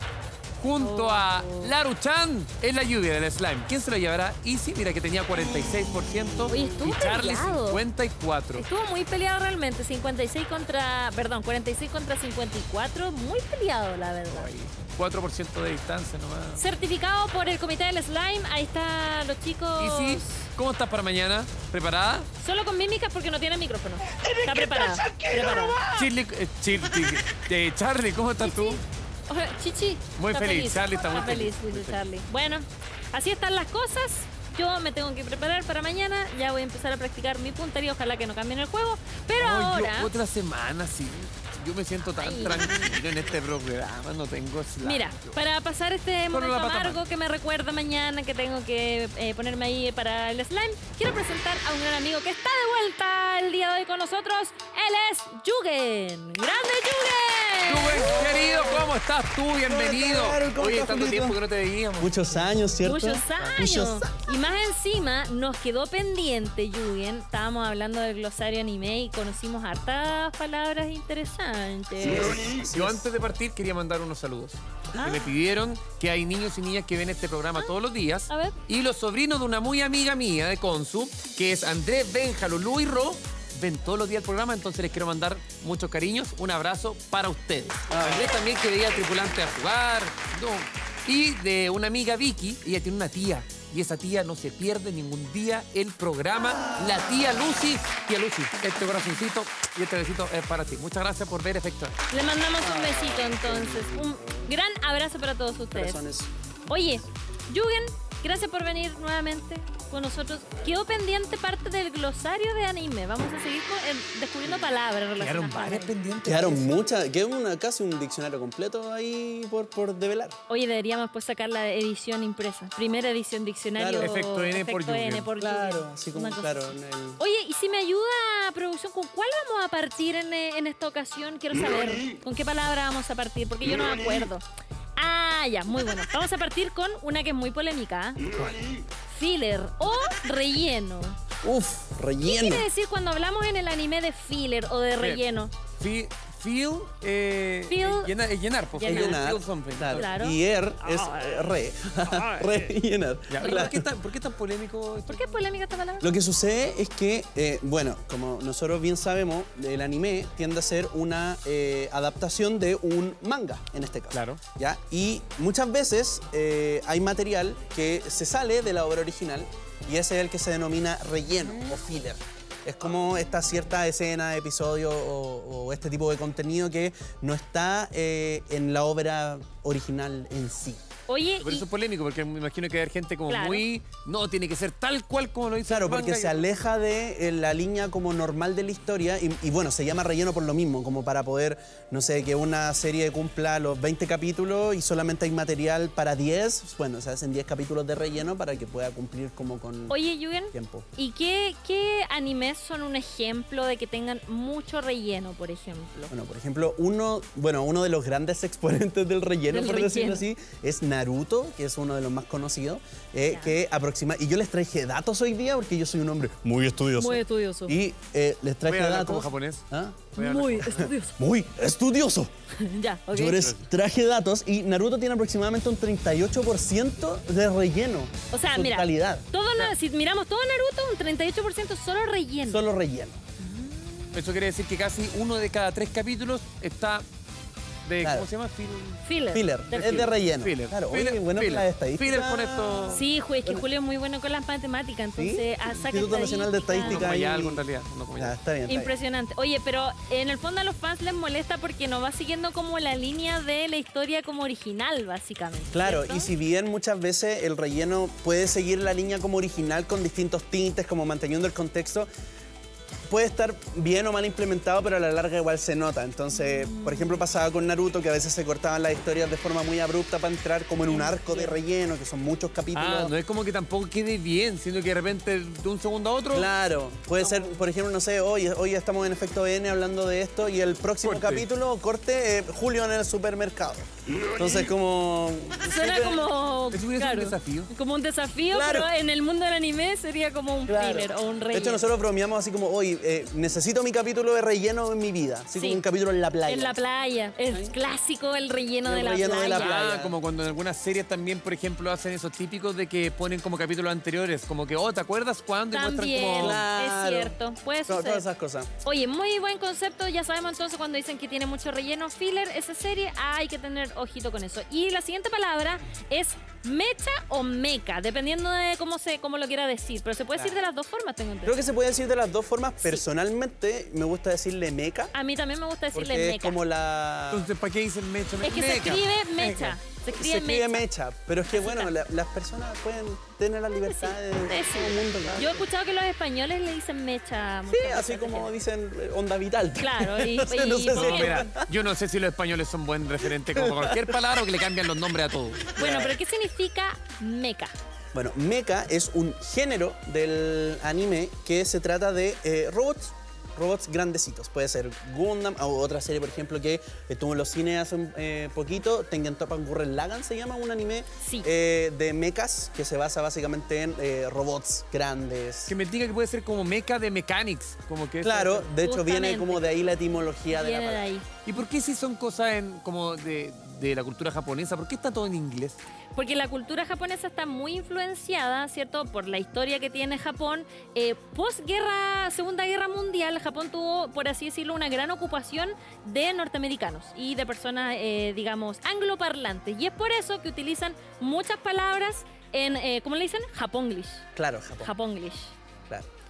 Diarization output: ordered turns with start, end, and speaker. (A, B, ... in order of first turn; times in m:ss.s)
0:00.6-0:08.6 A
0:00.8-0:01.7 B
0:06.5-0:07.8 B
0:08.6-0:14.5 B
0:14.3-0:16.6 A
0:16.6-0:20.5 B
0:19.8-0:22.3 A
0:22.4-0:25.8 B
0:25.8-0:28.8 A
0:28.4-0:40.1 B
0:30.2-0:32.0 A
0:39.4-0:45.4 A
0:42.0-0:42.7 B
0:44.8-0:58.6 B
0:46.3-0:47.0 A
0:57.6-1:02.2 A
0:58.0-0:58.8 C
0:59.7-1:01.4 C
1:02.0-1:04.2 C
1:02.8-1:12.4 B
1:03.4-1:03.6 A
1:12.1-1:13.1 C
1:12.6-1:42.0 A
1:15.0-1:15.3 B
1:18.3-1:18.6 B
1:27.9-1:28.3 C
1:42.1-1:46.0 B
1:42.6-1:44.2 C
1:45.7-1:46.3 C
1:46.7-1:55.9 B
1:55.2-1:56.7 A
1:56.2-2:00.4 C
2:00.5-2:14.4 B
2:03.8-2:04.1 C
2:04.0-2:05.3 A
2:05.4-2:07.2 C
2:15.0-2:18.2 B
2:19.1-2:21.2 B
2:21.4-2:22.7 C
2:22.2-2:25.5 B
2:25.8-2:30.1 A
2:27.7-2:28.1 B
2:28.8-2:29.2 B
2:28.8-2:33.8 C
2:29.9-2:32.7 B
2:33.3-2:35.3 A
2:33.4-2:33.7 B
2:35.1-2:36.1 B
2:36.0-3:00.8 C
2:44.1-2:44.4 A
3:01.1-3:01.7 B
3:01.4-3:06.4 A
3:03.3-3:03.7 B
3:05.7-3:20.0 C
3:19.9-3:26.1 B
3:20.5-3:20.9 C
3:26.1-3:40.1 C
3:29.5-3:30.2 B
3:33.3-3:33.6 B
3:37.0-3:37.8 B
3:38.7-3:40.9 A
3:40.2-3:41.2 B
3:40.6-3:42.3 C
3:42.6-3:43.5 B
3:43.1-3:49.2 C
3:48.3-3:52.6 B
3:52.5-3:53.2 C
3:53.4-3:54.2 B
3:54.1-3:57.0 A
3:57.9-3:59.0 A
3:58.0-3:58.3 C
3:59.0-4:00.1 B
3:59.3-4:03.7 C
3:59.8-4:03.0 A
4:02.9-4:07.1 B
4:05.1-4:07.6 C
4:06.8-4:08.4 A
4:08.2-4:08.9 C
4:08.7-4:16.3 B
4:15.7-4:22.1 C
4:23.1-4:33.1 C
4:26.4-4:27.2 B
4:30.9-4:31.6 B
4:32.7-4:36.5 A
4:36.3-4:46.2 C
4:37.2-4:37.5 B
4:41.0-4:41.5 A
4:45.6-4:51.9 B
4:46.7-4:47.7 A
4:48.5-4:48.9 C
4:50.7-4:56.8 C
4:55.6-4:55.8 B
4:56.5-4:59.7 B
4:58.8-5:00.2 C
4:59.5-5:06.6 A
5:05.7-5:08.2 B
5:06.4-5:07.3 C
5:07.9-5:08.7 C
5:08.8-5:21.6 B
5:21.4-5:25.1 C
5:25.1-5:26.6 B
5:25.9-5:27.5 C
5:27.3-5:29.8 A
5:28.4-5:30.8 B
5:30.1-5:35.6 C
5:31.5-5:31.9 B
5:33.8-5:38.5 B
5:37.7-5:41.7 C
5:39.8-5:41.5 B
5:40.9-5:45.8 A
5:43.5-5:44.2 C
5:45.8-5:46.2 C
5:45.8-5:47.7 B
5:48.1-6:05.7 C
6:01.2-6:01.5 B
6:05.7-6:08.7 A
6:08.2-6:11.1 C
6:08.8-6:09.6 B
6:10.5-6:11.3 B
6:11.5-6:15.8 A
6:16.1-6:34.2 B
6:34.4-6:34.9 C
6:34.8-6:35.5 B